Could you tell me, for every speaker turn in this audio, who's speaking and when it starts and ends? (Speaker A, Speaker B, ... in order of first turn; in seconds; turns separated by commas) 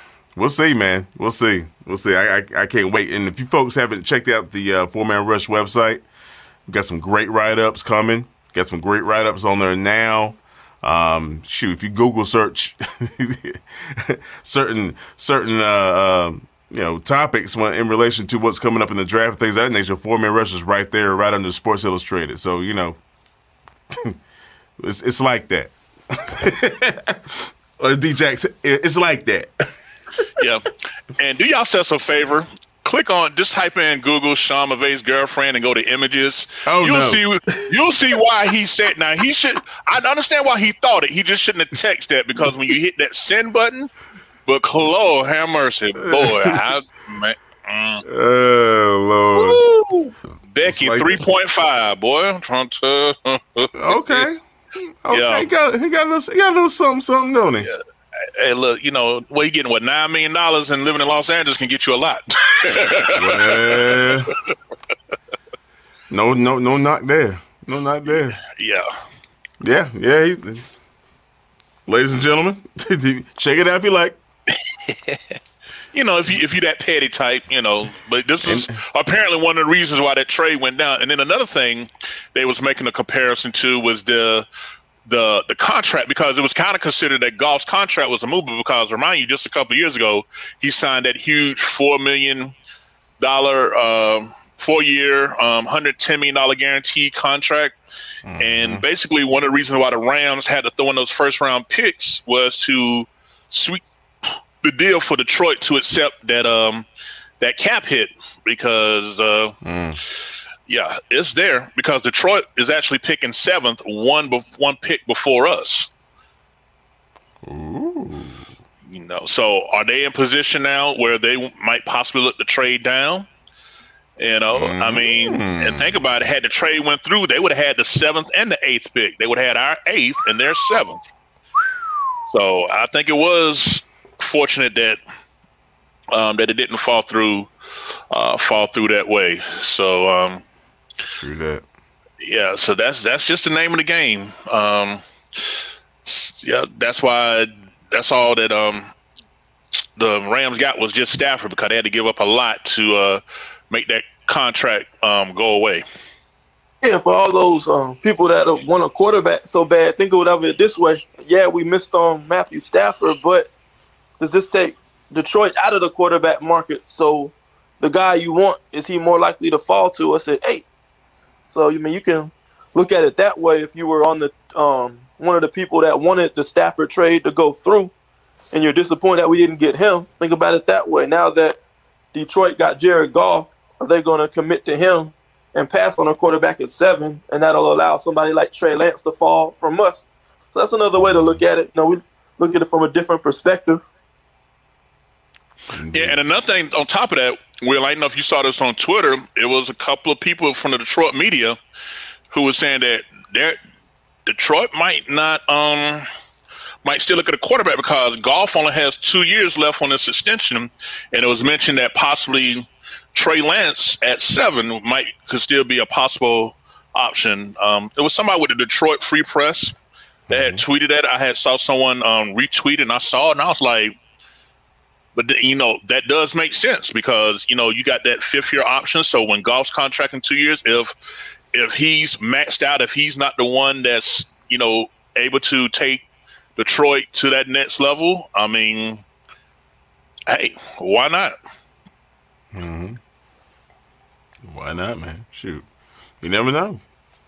Speaker A: 0.3-6.0, Speaker A: 6.7-23.0, Speaker A: 24.8-30.3, Speaker B: 30.4-43.9, Speaker A: 36.6-37.7, Speaker A: 42.4-42.7, Speaker B: 44.5-48.0, Speaker A: 46.0-46.6, Speaker A: 48.0-49.6, Speaker B: 49.3-54.3, Speaker A: 50.6-51.2, Speaker A: 53.7-57.7, Speaker B: 55.1-55.5, Speaker B: 57.6-64.2, Speaker A: 63.1-64.3, Speaker A: 66.1-68.4, Speaker B: 68.1-68.9, Speaker A: 69.6-70.7, Speaker A: 71.8-74.2, Speaker B: 74.7-75.4, Speaker B: 75.9-84.5, Speaker A: 78.4-78.7, Speaker B: 85.0-92.5, Speaker B: 93.2-97.7, Speaker A: 98.2-98.8, Speaker B: 98.4-106.8, Speaker B: 107.4-109.6, Speaker A: 109.6-110.0, Speaker B: 110.7-115.9, Speaker A: 117.4-118.5, Speaker B: 118.9-123.3, Speaker B: 124.2-131.0, Speaker A: 124.5-126.0, Speaker B: 132.3-135.0, Speaker B: 136.1-137.5, Speaker B: 138.1-140.4, Speaker A: 141.1-141.6, Speaker B: 142.2-148.9, Speaker B: 150.0-153.2, Speaker B: 153.7-155.8, Speaker C: 156.8-163.5, Speaker C: 164.2-170.7, Speaker C: 171.5-177.9, Speaker C: 178.5-181.6, Speaker C: 182.1-193.8, Speaker A: 191.0-191.4, Speaker A: 195.7-196.2, Speaker B: 195.9-201.6, Speaker B: 202.3-203.6, Speaker B: 204.2-206.1, Speaker B: 206.8-219.7, Speaker A: 220.3-220.6, Speaker B: 220.3-223.9, Speaker B: 225.2-230.9, Speaker B: 231.5-236.0, Speaker B: 236.6-239.0, Speaker B: 240.3-241.3, Speaker A: 242.5-243.0, Speaker A: 244.4-245.6, Speaker A: 246.2-246.8